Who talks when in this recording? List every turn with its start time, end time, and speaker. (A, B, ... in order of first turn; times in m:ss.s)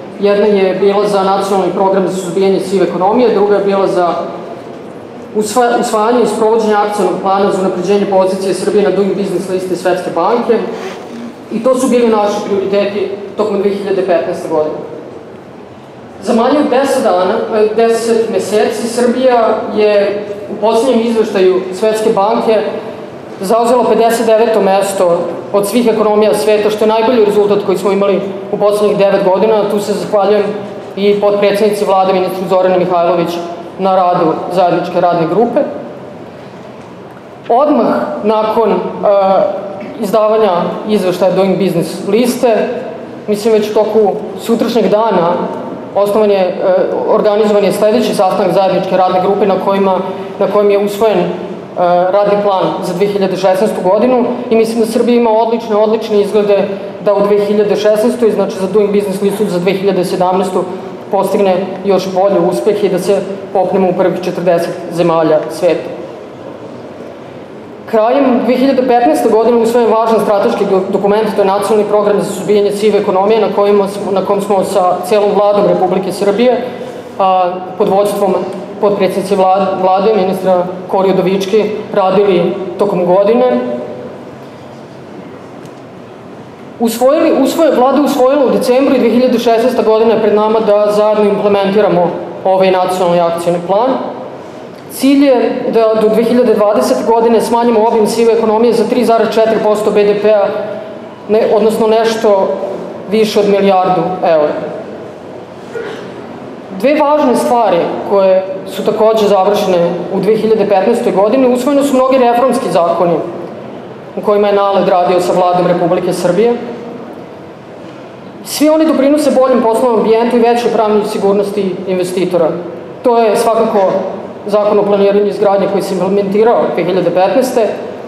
0:00.2-0:04.2 A
0:05.3-0:10.6 A
0:11.5-0:14.8 A
0:16.2-0:22.6 A
0:23.4-0:35.7 A
0:37.5-0:45.4 A
0:45.9-1:05.9 A
1:07.9-1:16.6 A
1:17.2-1:23.7 A
1:26.8-1:34.0 A
1:34.9-1:40.5 A
1:41.3-1:42.5 A
1:43.1-1:44.6 A
1:46.7-1:53.2 A
1:54.2-1:56.6 A
1:58.4-2:07.7 A